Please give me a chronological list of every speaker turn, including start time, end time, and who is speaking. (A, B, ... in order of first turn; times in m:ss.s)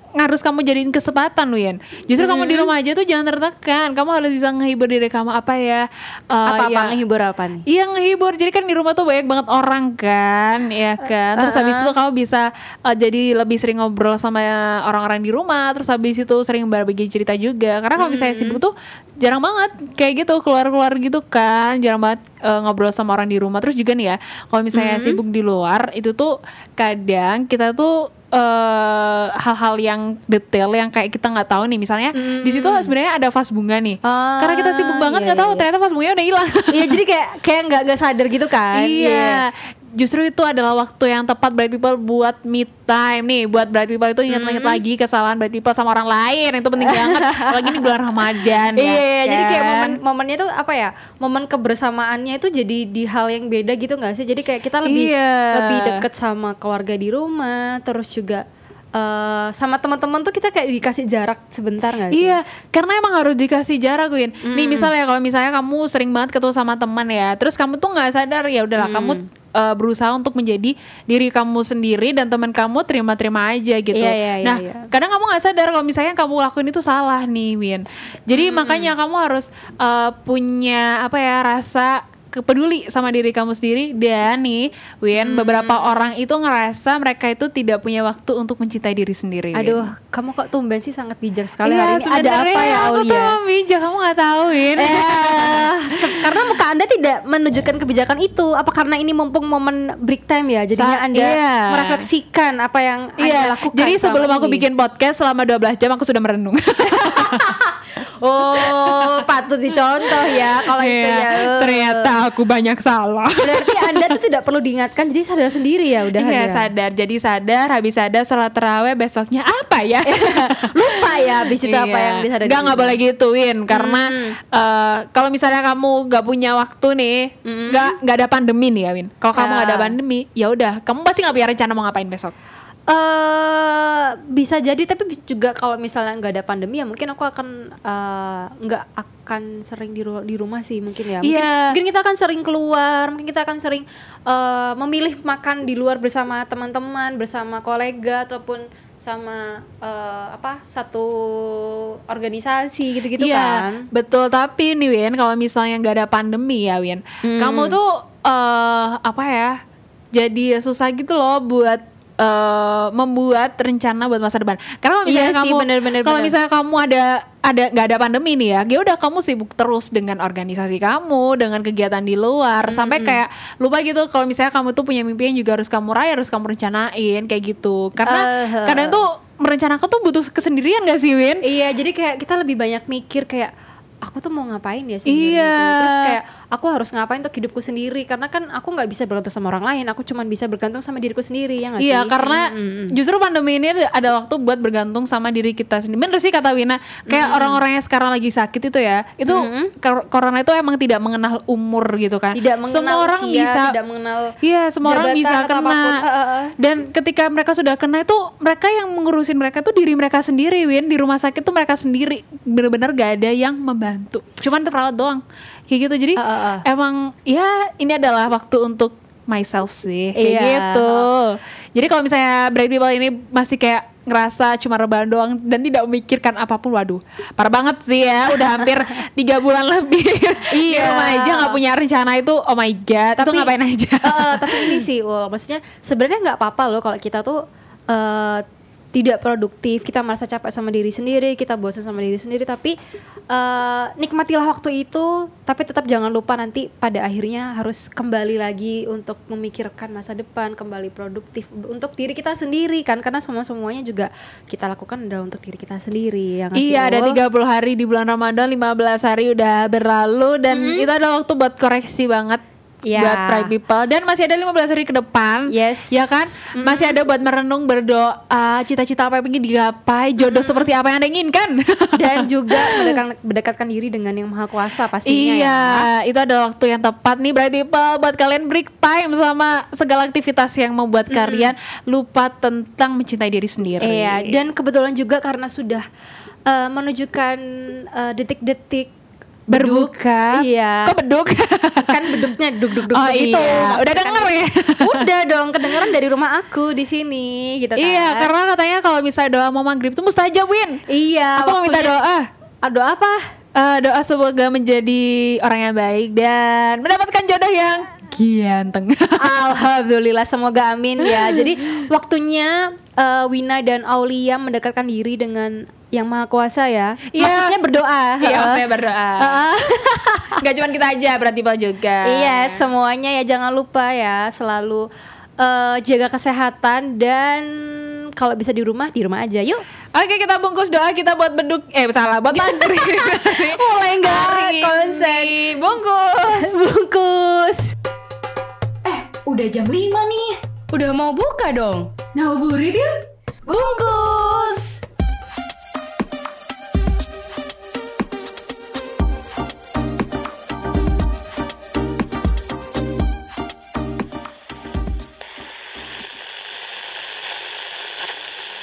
0:00.2-0:06.9 A
0:02.2-0:02.7 B
0:06.5-0:07.6 B
0:07.7-0:37.0 A
0:11.4-0:11.9 B
0:18.0-0:18.6 B
0:24.7-0:25.2 B
0:32.2-0:32.9 B
0:34.0-0:35.6 B
0:36.7-0:39.4 B
0:38.8-0:49.9 A
0:44.3-0:44.8 B
0:46.8-0:58.4 B
0:54.8-0:56.0 A
0:59.0-1:02.4 B
1:02.1-1:29.9 A
1:04.4-1:04.9 B
1:08.8-1:09.2 B
1:13.9-1:14.9 B
1:18.3-1:18.9 B
1:25.1-1:26.0 B
1:29.5-1:33.4 B
1:31.6-1:36.3 A
1:34.8-1:44.6 B
1:40.8-1:42.0 A
1:43.2-1:47.7 A
1:47.0-1:47.6 B
1:48.2-1:52.2 B
1:48.6-1:49.2 A
1:50.0-1:54.1 A
1:53.4-1:56.7 B
1:56.2-2:12.3 A
2:00.1-2:03.0 B
2:03.7-2:04.4 B
2:07.4-2:07.9 B
2:09.4-2:10.0 B
2:12.9-2:33.9 B
2:21.2-2:21.8 A
2:33.2-2:39.6 A
2:37.2-2:37.8 B
2:40.1-3:01.4 A
2:45.1-2:46.4 B
2:52.7-2:53.2 B
2:58.0-2:59.0 B
3:01.4-3:03.5 B
3:04.0-3:13.0 B
3:05.1-3:06.2 A
3:11.8-3:23.7 A
3:17.1-3:17.6 B
3:19.3-3:19.7 B
3:22.3-3:26.5 B
3:24.4-3:26.0 A
3:26.6-3:54.8 A
3:36.2-3:36.7 B
3:40.2-3:41.1 B
3:50.5-3:51.6 B
3:53.2-3:58.4 B
3:58.9-4:02.8 B
4:03.3-4:17.2 B
4:16.6-4:22.4 A
4:20.5-4:20.9 B
4:22.9-4:23.5 B
4:23.0-4:33.0 A
4:25.5-4:27.0 B
4:30.2-4:30.7 B
4:32.0-4:35.9 B
4:35.1-4:44.4 A
4:41.1-4:41.5 B
4:43.8-4:45.8 B
4:46.5-4:48.9 B
4:49.5-4:52.3 A
4:49.5-4:51.0 B
4:51.8-4:58.3 B
4:52.8-4:55.0 A
4:57.8-5:00.8 A
5:00.9-5:02.0 B
5:01.4-5:02.3 A
5:02.6-5:03.2 B
5:03.6-5:09.4 A
5:09.2-5:18.6 B
5:17.1-5:17.5 A
5:18.2-5:19.4 A
5:19.2-5:20.4 B
5:20.4-5:22.7 A
5:22.0-5:24.9 B
5:25.4-5:29.6 B
5:30.0-5:36.5 A
5:32.3-5:37.7 B
5:38.8-5:40.3 C
5:40.7-5:41.9 D
5:42.1-5:42.9 C
5:43.5-5:44.2 C
5:43.6-5:44.7 D